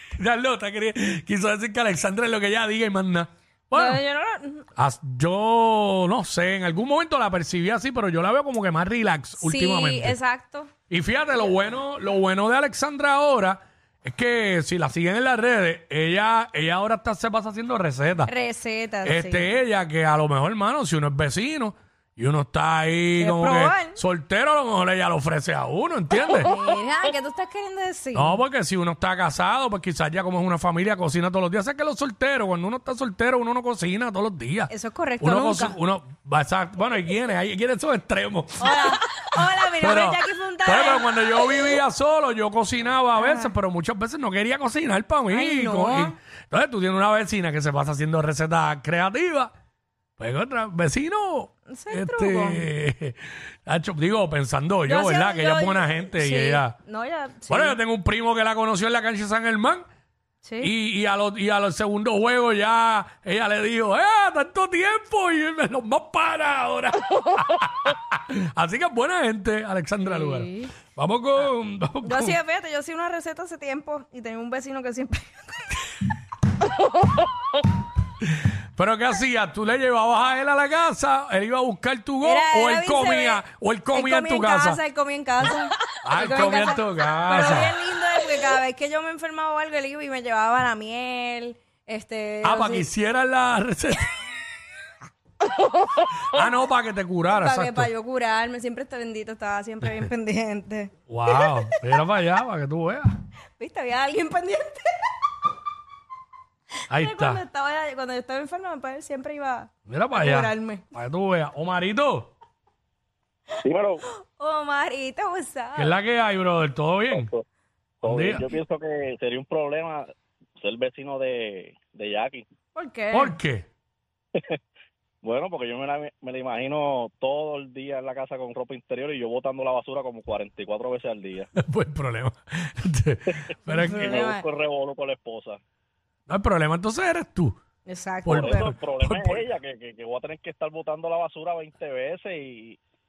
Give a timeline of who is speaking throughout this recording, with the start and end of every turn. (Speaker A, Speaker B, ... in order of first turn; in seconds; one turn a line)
Speaker A: 0.2-4.0
Speaker B: 3.7-4.7
Speaker A: 4.8-10.2
Speaker B: 9.4-10.7
Speaker A: 10.9-18.3
Speaker B: 18.2-19.5
Speaker A: 19.0-26.5
Speaker B: 23.2-24.0
Speaker B: 26.3-28.4
Speaker A: 28.1-49.5
Speaker B: 34.7-35.8
Speaker B: 38.6-41.1
Speaker B: 43.2-43.5
Speaker B: 45.3-46.1
Speaker A: 50.2-56.8
Speaker B: 51.7-52.6
Speaker B: 54.9-57.8
Speaker A: 57.5-59.8
Speaker B: 60.4-60.7
Speaker A: 60.6-72.4
Speaker B: 70.0-70.7
Speaker B: 72.0-75.8
Speaker A: 78.8-84.8
Speaker B: 82.2-83.4
Speaker B: 83.9-92.9
Speaker A: 86.0-87.8
Speaker A: 92.4-94.1
Speaker B: 95.6-96.2
Speaker A: 96.3-97.9
Speaker B: 97.2-101.5
Speaker A: 101.1-103.1
Speaker B: 103.6-104.9
Speaker B: 106.9-110.8
Speaker A: 106.9-107.4
Speaker A: 109.9-112.3
Speaker C: 113.6-114.0
Speaker B: 114.3-115.9
Speaker A: 115.8-117.3
Speaker C: 117.1-117.4
Speaker C: 118.0-120.0
Speaker A: 118.0-118.5
Speaker C: 120.6-122.4
Speaker B: 122.8-123.4
Speaker A: 123.1-123.6
Speaker C: 125.2-131.5
Speaker A: 131.6-134.1
Speaker C: 133.3-135.6
Speaker B: 133.7-134.4
Speaker A: 136.3-137.6
Speaker B: 137.9-138.7
Speaker A: 138.2-139.4
Speaker C: 138.3-142.8